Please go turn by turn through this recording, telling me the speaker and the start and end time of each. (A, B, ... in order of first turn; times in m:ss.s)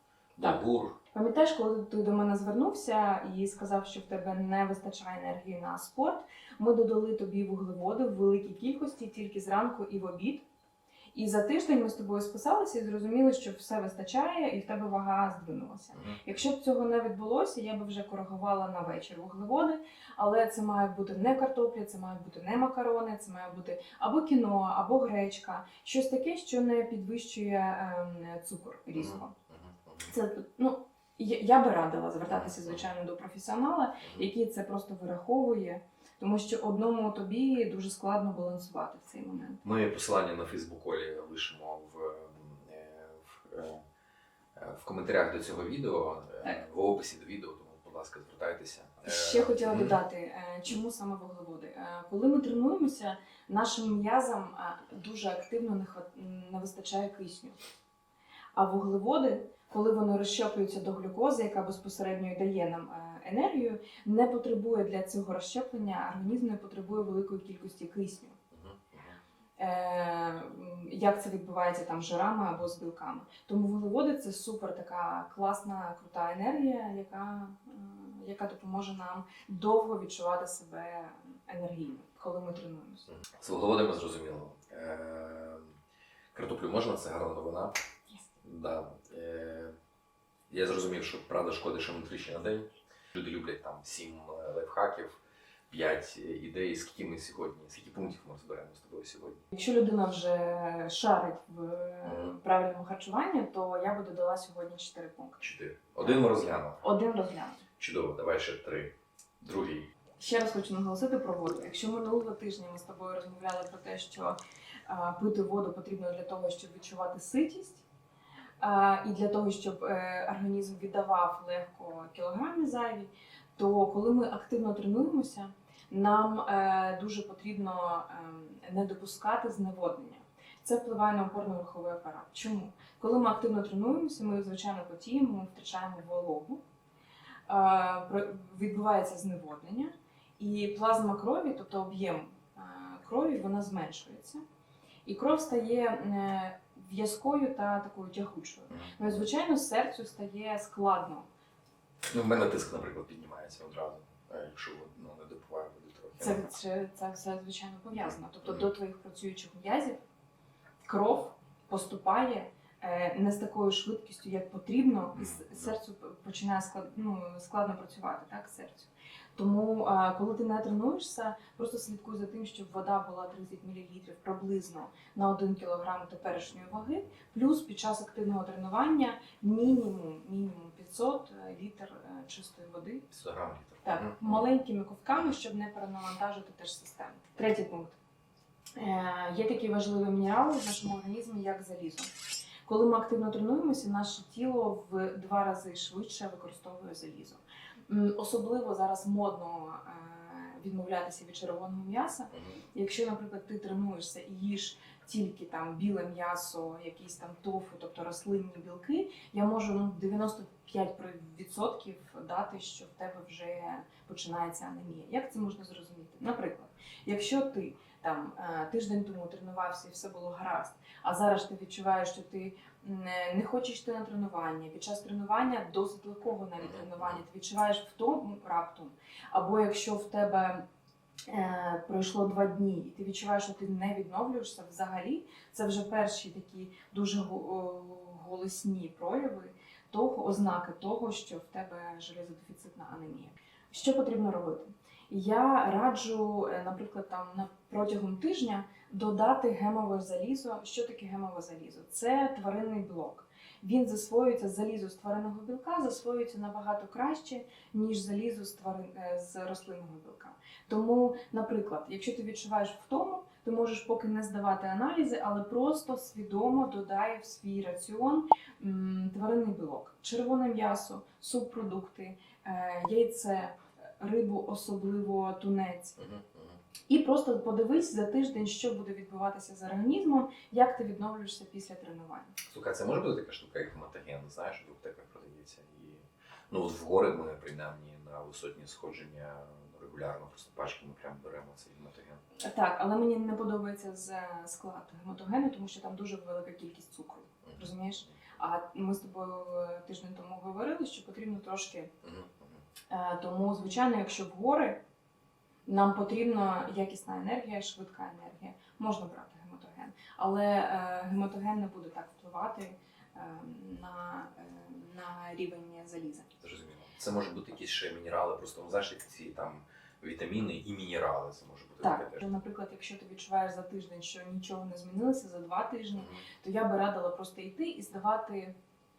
0:00.4-0:01.0 A
0:00.4-0:10.5 B
0:11.1-0:29.3 B
0:15.9-0:16.2 A
0:28.9-0:30.1 A
0:30.0-0:39.6 B
0:32.3-0:32.8 A
0:34.0-0:34.3 A
0:39.6-0:43.8 A
0:44.6-0:50.0 A
0:49.0-0:57.6 B
0:58.5-1:08.4 B
1:08.5-1:09.2 A
1:09.6-1:23.1 B
1:23.1-1:25.8 A
1:26.3-1:27.8 A
1:28.4-1:29.8 A
1:30.5-1:35.2 A
1:35.7-1:39.4 A
1:39.5-1:47.6 B
1:42.0-1:42.4 A
1:45.4-1:46.8 A
1:47.8-1:49.9 A
1:50.2-1:57.8 B
1:58.6-2:16.6 B
2:17.5-2:24.4 B
2:25.0-2:31.3 B
2:28.7-2:29.2 A
2:32.1-2:36.5 A
2:36.2-2:40.0 B
2:38.4-2:38.7 A
2:40.8-3:03.1 B
2:45.1-2:45.7 A
3:03.1-3:04.4 A
3:03.8-3:08.0 B
3:08.8-3:12.1 B
3:12.7-3:50.6 B
3:22.3-3:22.6 A
3:46.6-3:47.2 A
3:51.3-4:36.0 B
4:36.0-4:36.6 A
4:36.9-4:42.4 B
4:42.5-4:52.2 A
4:52.4-5:01.9 B
4:57.4-4:58.1 A
5:02.0-5:02.6 A
5:02.9-5:04.8 B
5:05.7-5:16.3 B
5:16.4-5:22.2 A
5:21.8-5:28.6 B
5:26.0-5:26.3 A